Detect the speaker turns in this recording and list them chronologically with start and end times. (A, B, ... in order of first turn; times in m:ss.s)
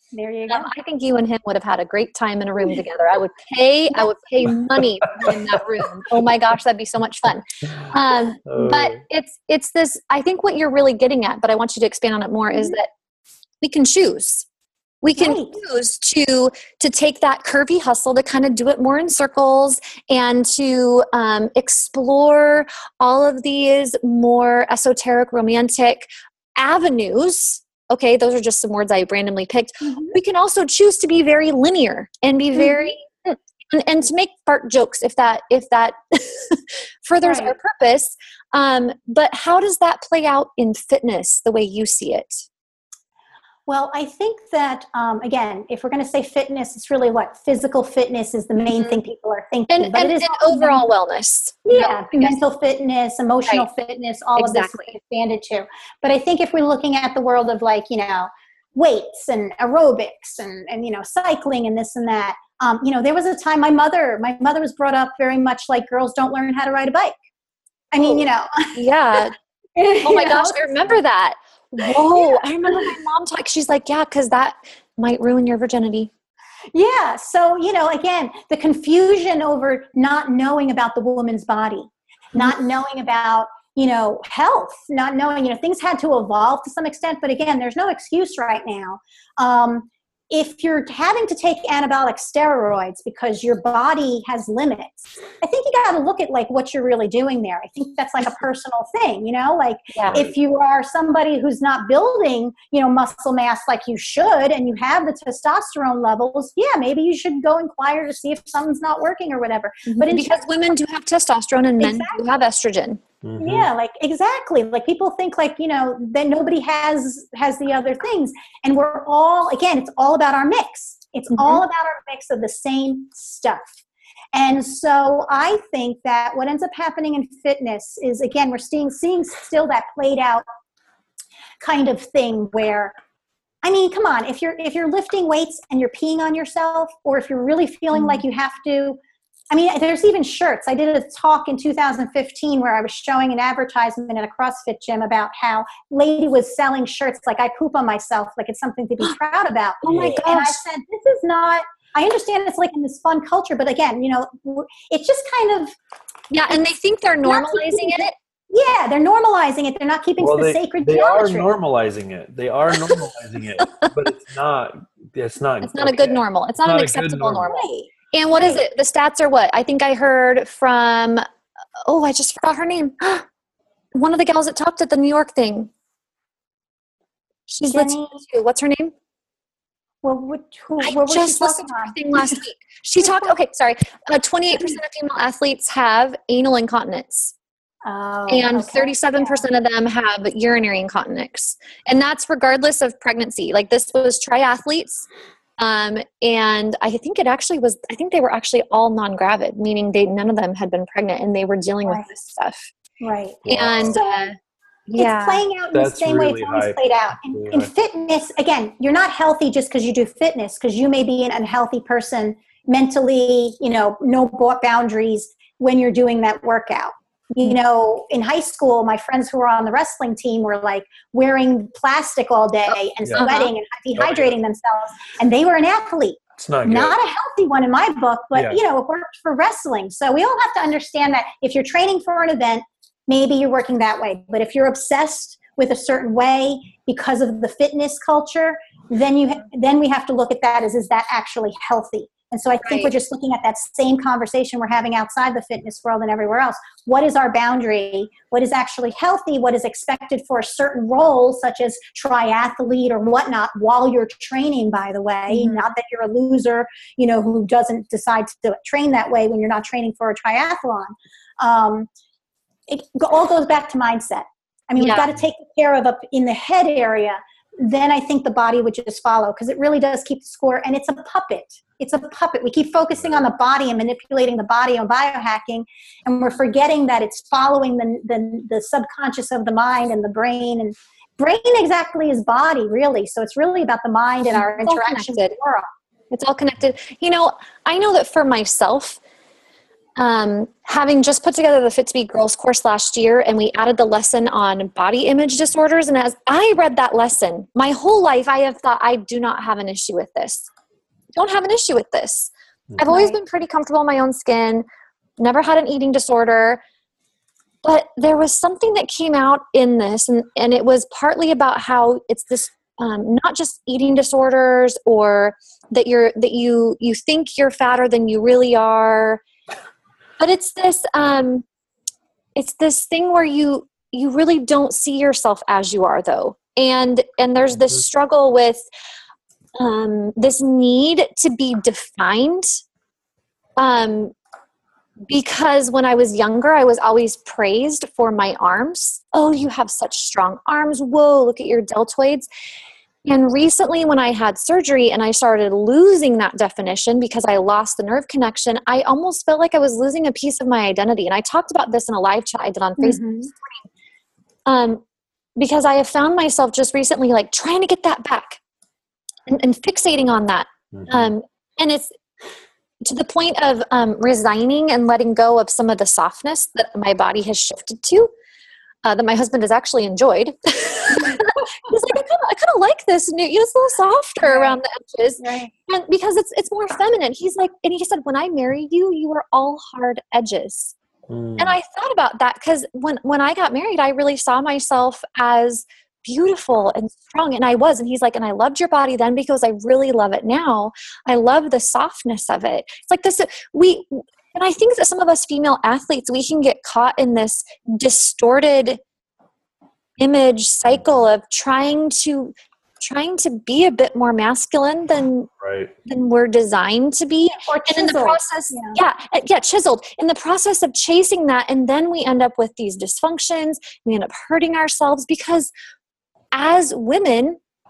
0:00.1-0:00.7 A
0:00.5-0:12.9 B
0:08.5-0:09.0 C
0:12.5-0:12.8 A
0:13.6-0:14.4 B
0:15.0-0:42.5 B
0:15.1-0:15.6 A
0:29.8-0:30.2 A
0:32.6-0:32.9 A
0:37.2-0:37.5 A
0:43.7-0:50.8 A
0:48.7-0:49.0 B
0:49.7-0:52.4 B
0:51.6-1:07.2 A
0:54.4-0:54.9 B
1:07.9-1:09.2 A
1:08.0-1:08.2 B
1:08.8-1:09.4 B
1:09.8-1:11.0 A
1:10.0-1:16.1 B
1:12.1-1:12.8 A
1:16.7-1:50.4 A
1:49.9-1:53.0 B
1:51.8-1:52.2 A
1:53.2-1:53.7 C
1:53.4-2:03.8 A
2:01.3-2:01.6 B
2:04.3-2:10.4 A
2:11.6-2:13.0 A
2:13.6-2:19.0 A
2:18.0-2:18.2 B
2:19.5-2:35.7 A
2:29.8-2:30.6 B
2:29.9-2:30.2 C
2:36.3-2:38.1 B
2:37.2-2:41.5 A
2:40.2-2:47.5 C
2:43.6-2:43.9 B
2:45.6-2:51.2 B
2:47.5-2:47.9 A
2:51.9-2:53.2 B
2:53.9-2:55.7 B
2:57.5-2:58.9 B
2:57.7-2:58.2 A
3:00.0-3:02.4 A
3:00.8-3:07.3 B
3:03.0-3:03.3 A
3:07.8-3:09.4 A
3:08.3-3:15.1 B
3:15.6-3:22.7 B
3:23.0-3:24.3 A
3:23.4-3:24.0 C
3:23.5-3:24.4 B
3:24.9-3:25.4 B
3:25.0-4:21.9 A
3:25.7-3:27.7 C
3:42.7-3:43.5 B
3:44.0-3:44.4 C
3:46.4-3:47.0 C
3:48.4-3:48.6 C
4:02.6-4:02.9 B
4:15.3-4:15.6 B
4:22.7-4:45.7 A
4:24.8-4:25.1 B
4:44.3-4:45.3 B
4:46.1-4:49.0 B
4:50.0-5:00.5 B
5:01.1-5:04.6 B
5:02.7-5:03.0 C
5:05.2-5:06.6 B
5:07.6-5:19.2 B
5:20.2-5:21.4 B
5:22.4-5:28.7 B
5:29.6-5:32.6 B
5:33.6-5:34.1 B
5:35.1-5:42.3 B
5:43.0-5:53.6 B
5:52.8-5:53.3 A
5:54.4-5:54.8 B
5:55.4-5:58.4 B
5:59.3-6:01.9 B
6:00.7-6:01.1 C
6:02.8-6:08.1 B
6:08.8-6:20.7 B
6:14.2-6:14.6 A
6:15.2-6:15.5 A
6:21.1-6:21.6 C
6:21.4-6:38.8 B
6:40.0-6:45.3 B
6:45.4-6:45.7 C
6:45.9-6:55.5 B
6:47.3-6:48.8 A
6:56.3-6:57.4 B